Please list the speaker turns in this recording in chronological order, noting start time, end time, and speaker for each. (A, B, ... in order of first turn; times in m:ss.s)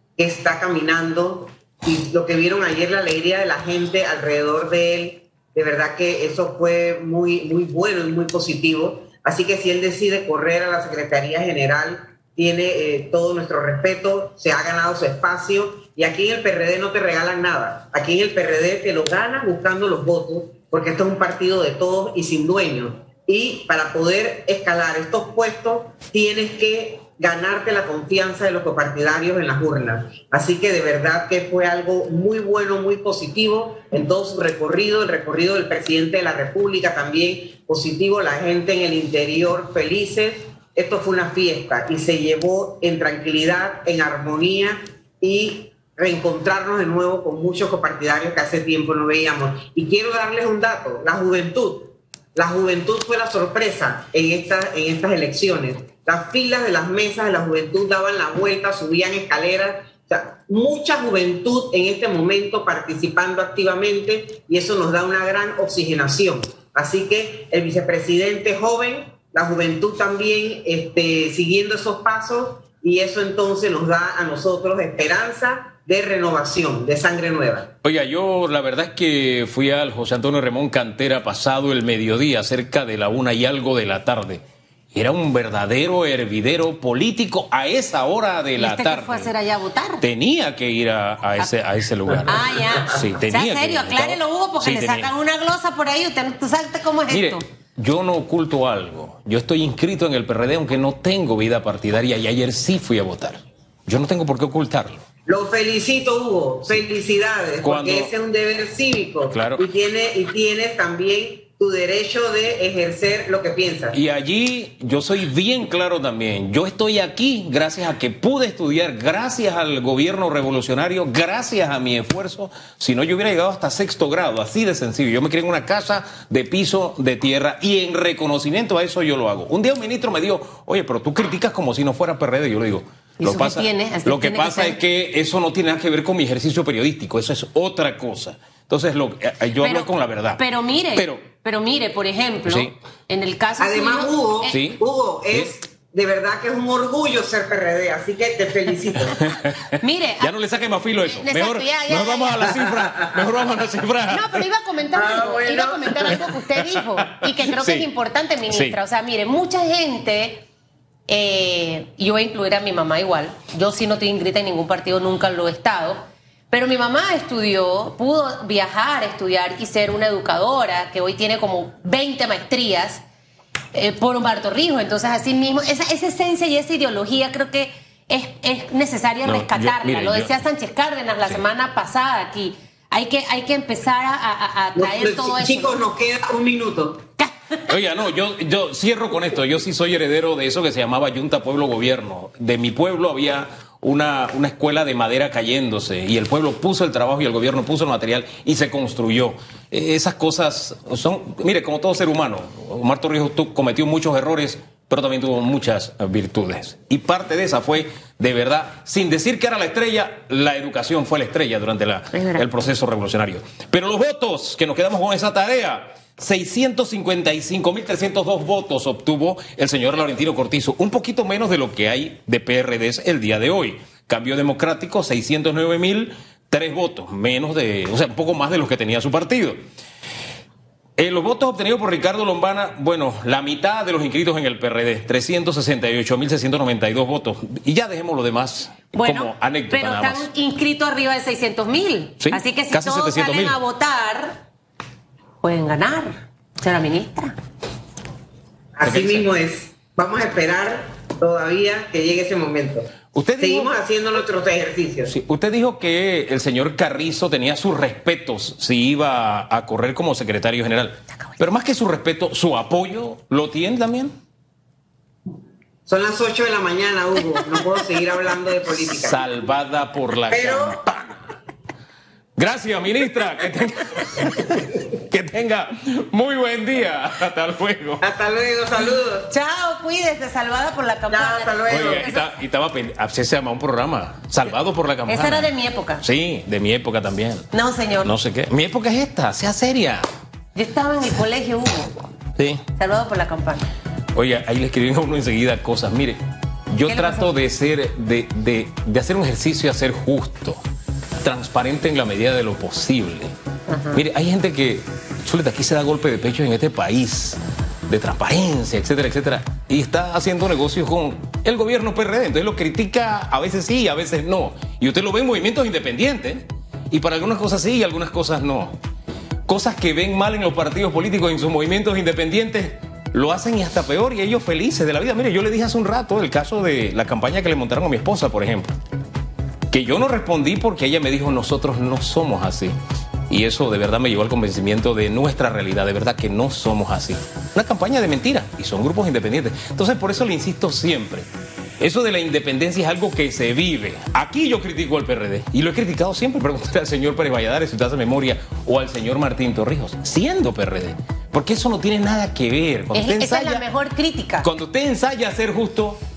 0:00.2-1:17.7 A
1:17.8-1:29.3 B
1:28.6-1:30.0 C
1:30.0-1:35.1 B
1:32.3-1:37.4 C
1:37.1-1:45.0 B
1:45.3-1:54.0 A
1:47.6-1:48.1 B
1:49.3-1:49.6 B
1:53.9-2:20.4 B
2:13.2-2:14.8 C
2:19.6-2:24.6 C
2:21.0-2:21.2 B
2:22.5-2:22.7 B
2:23.6-2:29.2 A
2:24.5-2:24.8 B
2:29.1-2:34.4 B
2:29.7-2:30.4 C
2:31.0-2:32.9 C
2:34.1-2:40.4 C
2:34.9-2:36.4 A
2:36.6-2:37.9 B
2:38.5-2:38.8 B
2:41.1-2:46.0 C
2:46.5-2:53.0 C
2:53.7-3:05.8 C
2:59.2-3:00.3 B
3:04.8-3:07.0 A
3:07.2-3:07.6 C
3:07.7-3:49.6 B
3:32.1-3:32.4 C
3:51.0-4:00.3 B
3:59.0-4:04.4 C
4:02.2-4:03.6 B
4:05.4-4:07.4 C
4:08.8-4:15.1 A
4:08.8-4:09.2 B
4:13.1-4:13.7 B
4:15.0-4:24.2 B
4:25.9-4:29.2 A
4:28.9-4:31.2 B
4:30.3-4:30.8 A
4:32.4-4:38.0 B
4:38.0-4:39.3 A
4:39.3-4:42.2 C
4:41.1-4:42.1 A
4:41.7-4:45.5 B
4:45.1-4:46.0 C
4:46.0-4:47.5 B
4:47.5-4:48.1 C
4:48.0-4:50.1 B
4:50.6-4:51.9 C
4:52.4-4:52.6 B
4:52.8-4:53.7 C
4:54.1-4:56.2 B
4:56.7-5:00.6 B
4:56.9-4:57.3 C
5:01.2-5:03.3 B
5:03.7-5:04.0 C
5:03.9-5:18.8 B
5:19.5-5:28.7 B
5:29.7-5:32.8 B
5:33.3-5:41.3 B
5:41.8-5:53.6 B
5:53.0-5:54.5 C
5:54.4-5:56.0 B